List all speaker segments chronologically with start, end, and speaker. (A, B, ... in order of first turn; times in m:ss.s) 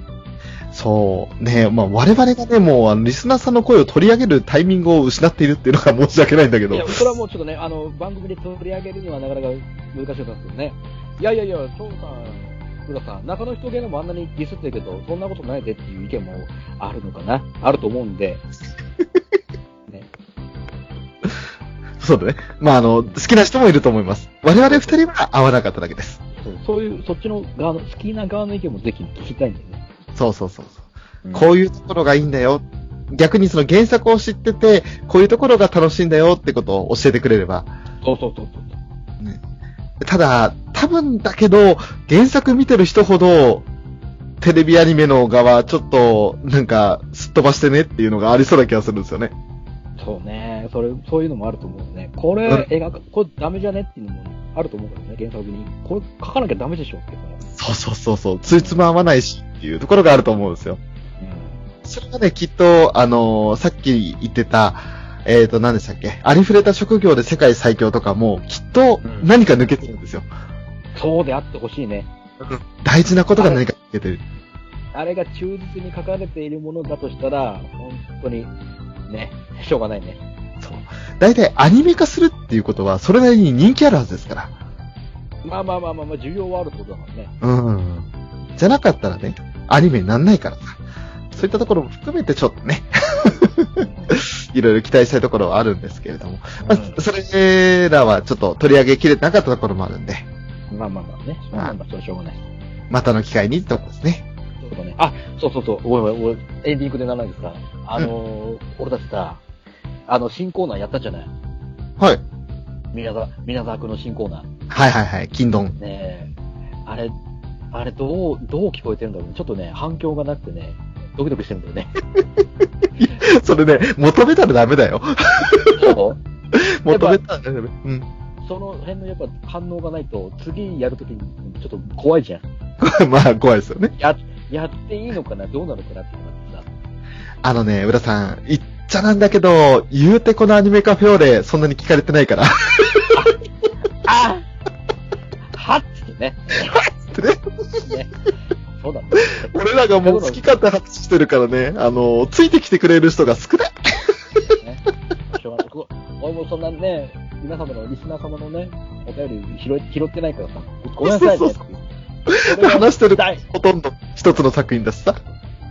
0:00.7-0:07.0 A
0:06.7-0:18.4 B
0:22.0-0:26.2 A
0:24.7-0:24.9 B
0:26.4-0:29.8 B
0:30.2-0:30.8 A
0:31.2-0:31.5 B
0:31.4-0:37.7 A
0:38.0-0:38.8 B
0:40.0-0:43.7 A
0:44.4-0:49.3 A
0:50.0-0:57.4 B
0:57.5-1:00.8 A
0:58.5-0:58.8 B
1:01.2-1:01.6 B
1:01.8-1:10.3 A
1:09.0-1:09.3 B
1:11.0-1:12.1 B
1:12.4-1:14.2 A
1:13.4-1:13.6 B
1:14.9-1:18.5 B
1:19.1-1:20.2 B
1:20.6-1:24.5 A
1:25.4-1:27.3 B
1:27.4-1:30.8 A
1:31.3-1:40.3 A
1:33.8-1:34.2 B
1:36.6-1:37.0 B
1:40.7-1:42.5 B
1:42.9-1:44.2 A
1:44.6-1:49.4 B
1:50.1-1:51.3 B
1:52.9-1:54.5 B
1:54.7-1:55.8 A
1:55.8-1:56.3 B
1:56.8-1:57.2 B
1:57.7-2:02.0 B
2:03.0-2:05.8 A
2:05.8-2:06.2 B
2:06.5-2:08.1 A
2:06.9-2:07.2 B
2:08.4-2:12.4 B
2:12.8-2:13.9 A
2:14.0-2:16.7 B
2:17.4-2:23.2 A
2:23.1-2:23.4 B
2:24.0-2:24.4 B
2:25.5-2:26.8 B
2:26.7-2:27.8 A
2:27.8-2:28.1 B
2:28.8-2:30.5 B
2:29.5-2:34.2 A
2:34.6-2:41.9 B
2:41.0-2:41.6 A
2:42.3-2:45.2 A
2:42.4-2:43.4 B